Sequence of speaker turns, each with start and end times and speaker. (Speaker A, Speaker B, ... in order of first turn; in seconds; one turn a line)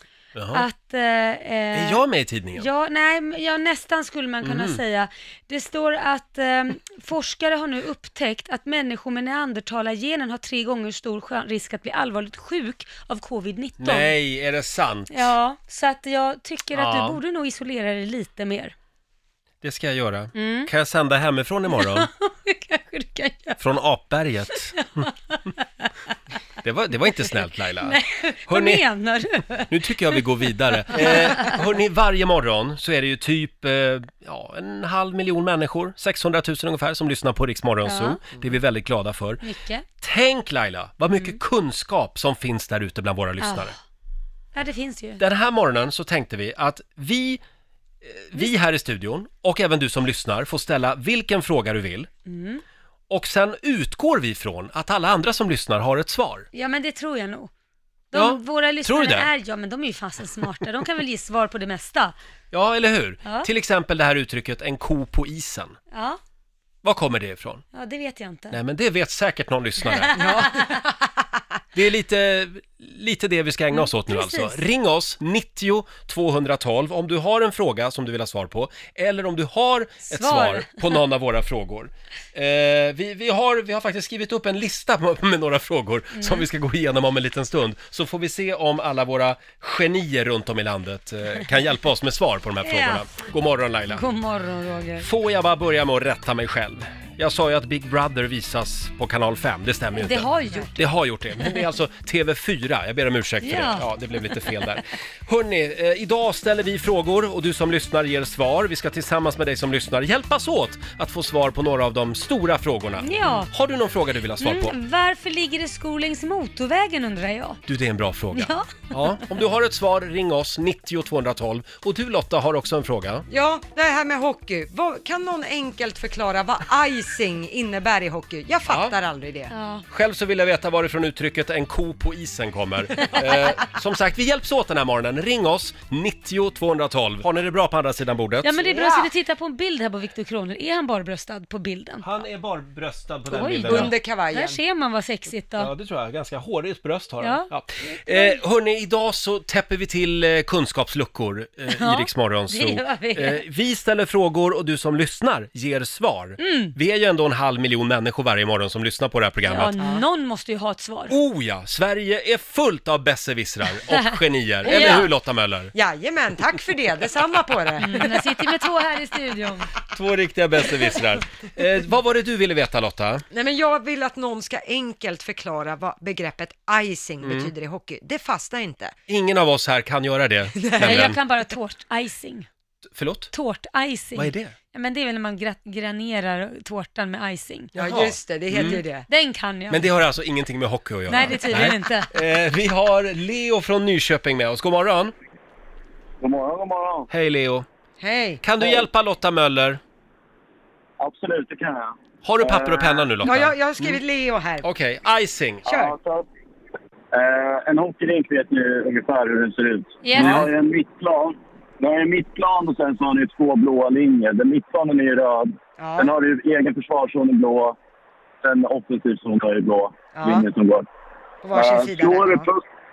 Speaker A: 0.3-0.7
Speaker B: 0.5-2.0
Speaker A: 1.7-2.7
Speaker B: 2.6-14.1
Speaker A: 4.4-4.8
Speaker A: 13.8-15.3
Speaker B: 15.1-18.7
Speaker A: 16.7-17.2
Speaker A: 19.6-22.1
Speaker B: 20.4-20.7
Speaker B: 21.7-23.6
Speaker A: 23.6-25.1
Speaker B: 25.0-25.9
Speaker A: 26.6-28.8
Speaker B: 27.8-30.2
Speaker A: 29.7-39.4
Speaker B: 30.9-31.6
Speaker B: 37.8-38.2
Speaker B: 39.4-39.9
Speaker A: 40.0-43.7
Speaker B: 41.1-41.4
Speaker B: 43.4-43.8
Speaker B: 44.5-45.2
Speaker A: 45.2-47.4
Speaker A: 48.0-52.1
Speaker B: 52.3-52.6
Speaker A: 53.1-56.5
Speaker B: 56.5-57.5
Speaker B: 58.1-62.2
Speaker A: 58.1-59.3
Speaker A: 62.5-65.8
Speaker B: 65.9-66.2
Speaker A: 66.8-67.6
Speaker B: 67.7-68.6
Speaker A: 68.5-70.2
Speaker B: 69.8-70.8
Speaker C: 70.2-70.9
Speaker A: 71.7-94.0
Speaker B: 73.7-74.6
Speaker B: 80.1-81.0
Speaker B: 86.2-86.5
Speaker B: 92.6-93.0
Speaker B: 93.9-95.1
Speaker A: 95.0-114.7
Speaker B: 100.0-100.8
Speaker B: 103.4-103.9
Speaker B: 113.0-113.5
Speaker B: 114.4-117.6
Speaker A: 117.7-123.2
Speaker B: 118.3-118.9
Speaker C: 123.3-129.5
Speaker A: 128.7-128.9
Speaker B: 129.5-129.8
Speaker A: 129.9-138.7
Speaker B: 138.4-142.1
Speaker C: 138.7-139.1
Speaker A: 142.0-143.9
Speaker B: 143.3-145.7
Speaker C: 143.4-144.6
Speaker A: 145.6-159.7
Speaker B: 147.2-148.4
Speaker B: 151.7-153.4
Speaker B: 156.4-156.7
Speaker B: 159.4-161.2
Speaker A: 161.1-165.7
Speaker B: 163.9-165.1
Speaker C: 164.7-165.1
Speaker C: 165.7-168.3
Speaker B: 167.8-169.7
Speaker A: 169.9-173.2
Speaker C: 173.3-178.9
Speaker A: 177.2-177.5
Speaker A: 179.1-181.2
Speaker C: 180.6-181.2
Speaker B: 180.8-182.5
Speaker A: 182.9-183.3
Speaker B: 183.3-187.7
Speaker A: 184.2-184.6
Speaker C: 187.8-189.1
Speaker A: 187.8-188.8
Speaker B: 189.1-189.9
Speaker A: 189.7-195.1
Speaker B: 191.1-192.1
Speaker D: 196.2-197.1
Speaker A: 197.1-197.7
Speaker C: 198.0-198.4
Speaker A: 198.4-199.8
Speaker D: 201.0-203.1
Speaker A: 202.2-204.0
Speaker C: 203.2-204.7
Speaker A: 204.6-205.7
Speaker C: 205.7-205.9
Speaker D: 205.7-206.3
Speaker D: 207.1-217.8
Speaker B: 210.0-210.5
Speaker C: 210.2-210.5
Speaker C: 215.8-216.1
Speaker D: 218.4-220.9
Speaker C: 220.1-220.5
Speaker C: 221.4-222.5
Speaker D: 221.5-222.6